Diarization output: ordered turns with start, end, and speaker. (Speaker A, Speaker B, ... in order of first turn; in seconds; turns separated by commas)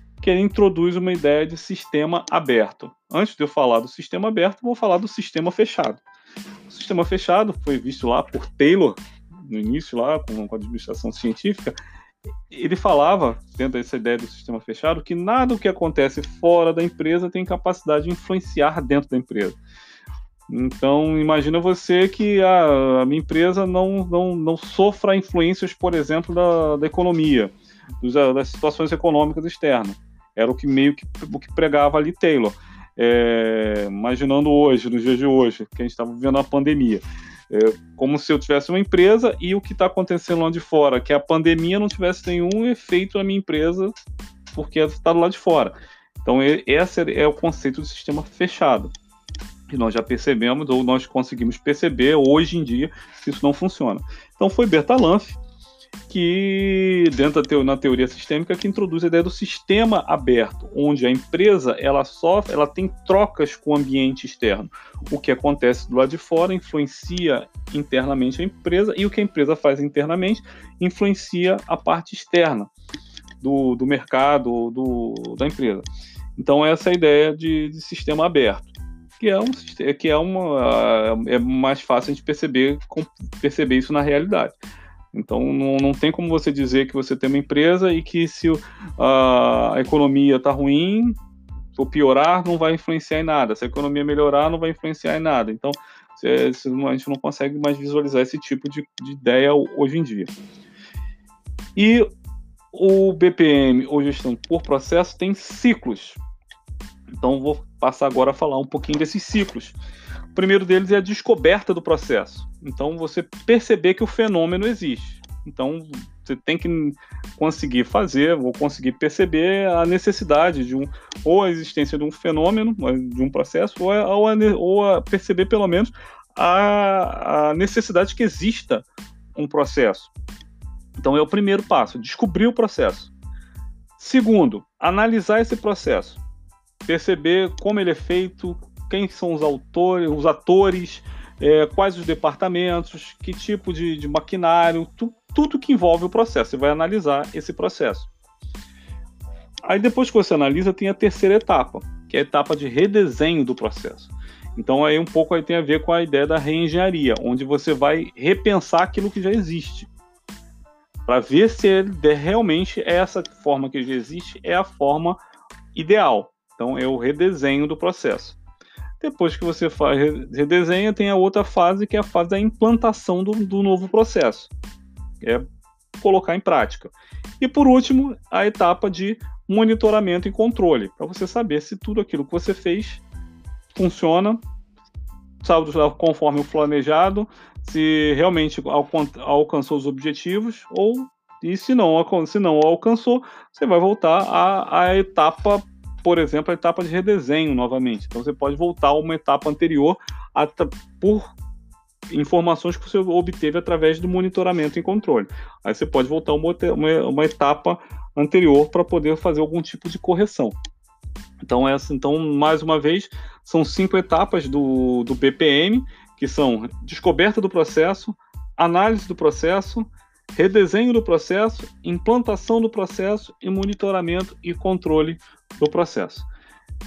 Speaker A: 0.2-6.0, Speaker A: 6.7-11.8, Speaker A: 12.5-19.6, Speaker A: 20.5-43.9, Speaker A: 44.5-48.9, Speaker A: 49.7-55.4, Speaker A: 56.1-72.7, Speaker A: 73.4-84.6, Speaker A: 85.1-91.2, Speaker A: 91.8-100.3, Speaker A: 101.8-102.1, Speaker A: 102.7-106.2, Speaker A: 107.2-109.8, Speaker A: 110.3-130.1, Speaker A: 131.0-133.1, Speaker A: 134.0-136.2, Speaker A: 136.9-148.1, Speaker A: 149.6-159.9, Speaker A: 161.1-165.2, Speaker A: 165.7-168.4, Speaker A: 169.0-174.5, Speaker A: 176.0-183.0, Speaker A: 183.7-184.4, Speaker A: 185.4-201.3, Speaker A: 202.1-210.6, Speaker A: 211.5-226.3